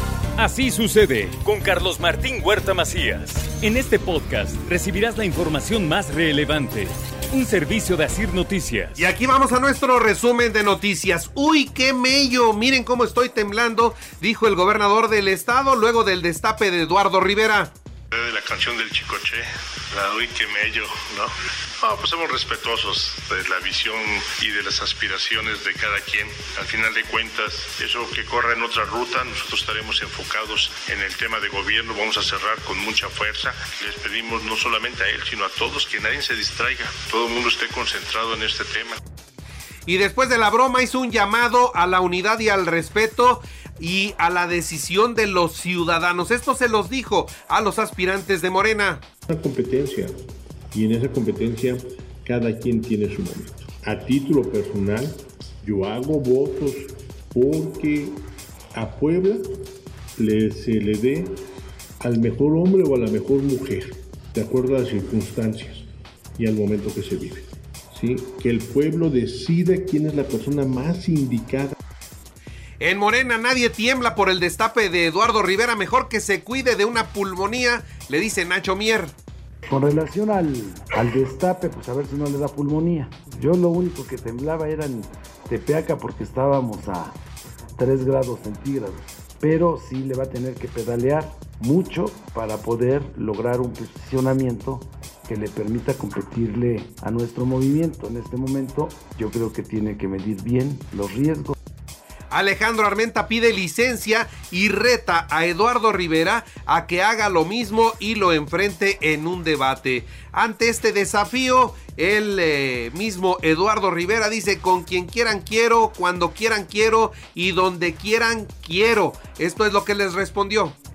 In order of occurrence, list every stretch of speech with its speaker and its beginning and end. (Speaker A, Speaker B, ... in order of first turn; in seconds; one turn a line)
Speaker A: 0.4-9.1
Speaker B: 8.9-17.7
Speaker C: 18.1-21.3
Speaker C: 21.8-39.0
Speaker B: 39.9-49.0
Speaker D: 49.3-50.1
Speaker D: 50.7-59.5
Speaker D: 60.2-61.4
Speaker D: 62.0-65.8
Speaker D: 66.4-71.7
Speaker B: 72.8-79.1
Speaker E: 79.6-87.2
Speaker E: 87.8-101.5
Speaker B: 102.3-120.8